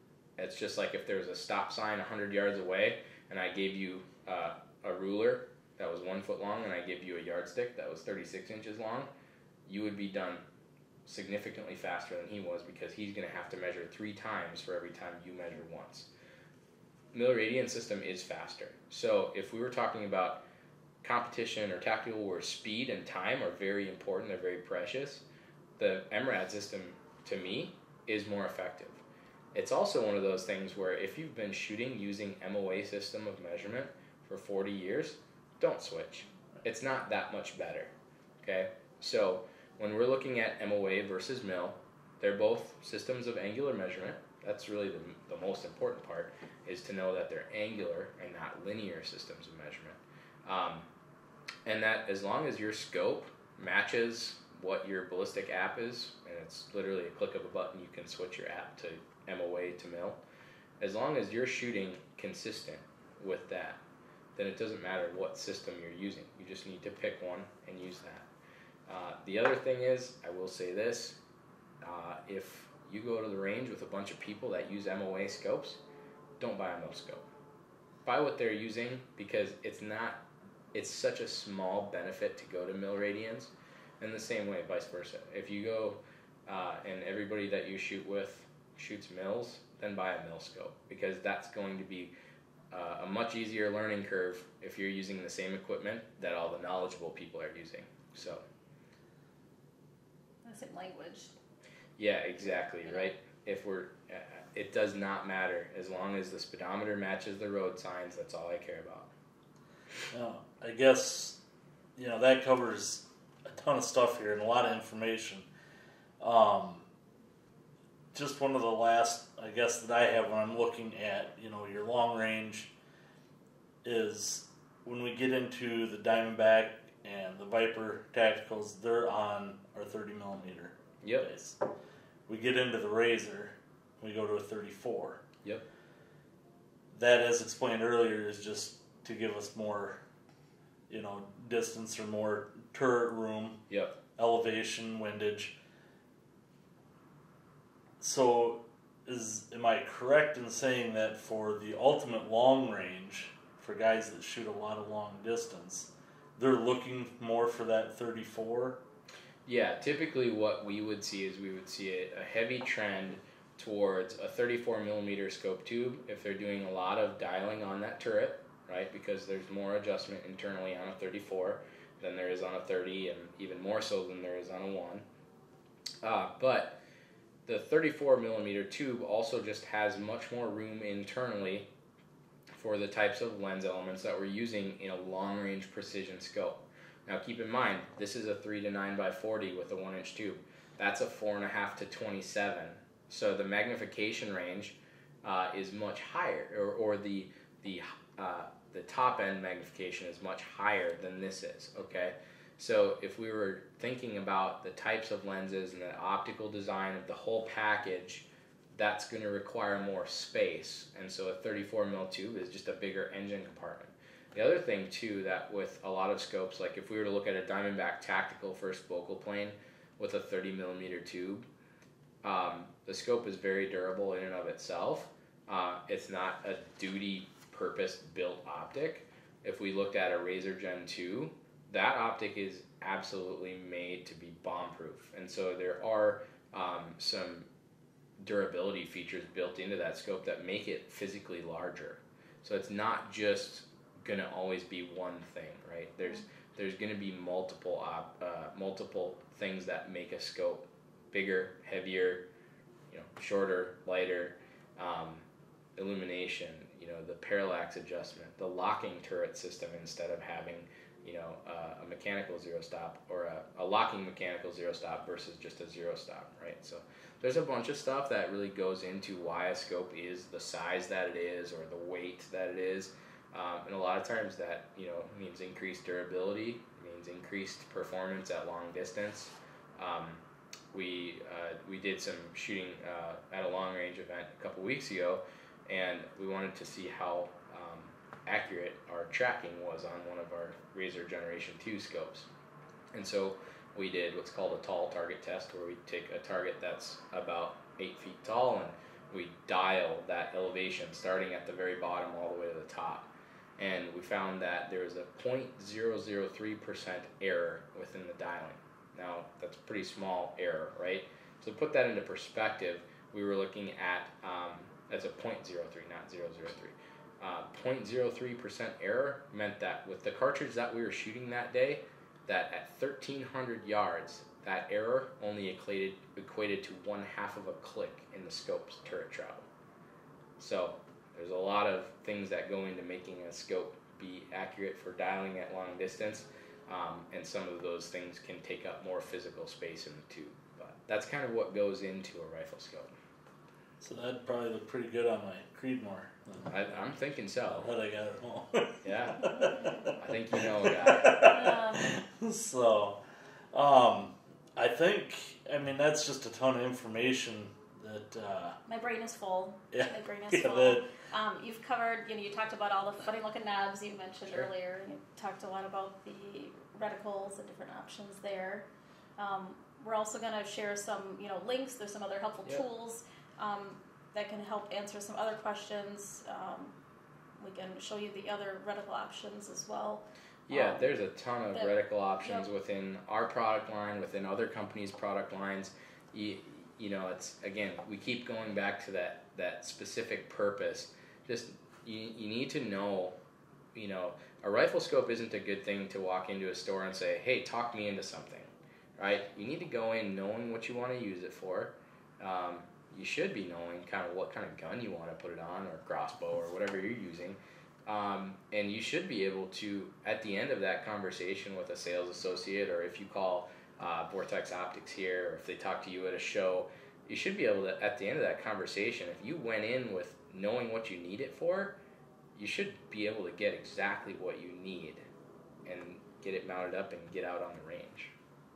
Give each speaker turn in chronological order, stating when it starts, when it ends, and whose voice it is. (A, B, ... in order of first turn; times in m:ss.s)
0:00.4-0:09.1 A
0:09.6-0:10.4 A
0:11.0-0:16.1 A
0:17.1-0:20.4 A
0:21.0-0:25.2 A
0:25.8-0:29.0 A
0:29.5-0:37.9 A
0:38.4-0:50.8 A
0:51.6-1:00.2 A
1:00.8-1:03.8 A
1:04.4-1:08.3 A
1:08.9-1:11.2 A
1:11.8-1:15.8 A
1:16.4-1:17.3 A
1:18.0-1:20.2 A
1:20.7-1:32.1 A
1:32.7-1:38.4 A
1:40.4-1:41.3 B
1:42.0-1:49.1 A
1:50.1-1:51.4 C
1:52.0-1:55.5 C
1:56.2-1:56.9 C
1:58.1-2:02.7 C
2:03.8-2:11.6 C
2:11.0-2:11.3 A
2:12.3-2:15.2 C
2:16.9-2:20.0 C
2:20.9-2:23.6 C
2:23.7-2:24.0 A
2:24.2-2:25.6 C
2:28.0-2:38.8 C
2:39.4-2:55.0 A
2:56.0-2:56.8 A
2:57.4-3:01.7 A
3:02.5-3:41.4 A
3:42.2-3:57.5 A
3:58.2-4:12.2 A
4:12.9-4:15.2 A
4:15.8-4:40.2 A
4:40.7-4:52.3 A
4:52.9-5:29.4 A
5:30.4-5:42.9 A
5:43.8-5:46.5 C
5:46.5-5:47.7 A
5:47.6-5:53.0 C
5:48.8-5:51.3 A
5:51.2-5:51.9 B
5:53.5-5:58.6 C
5:58.7-6:16.7 B
5:59.7-6:00.8 C
6:17.4-6:20.9 B
6:20.5-6:33.2 A
6:21.5-6:22.4 B
6:33.7-7:01.8 A
7:02.3-7:05.0 A
7:05.6-7:08.1 A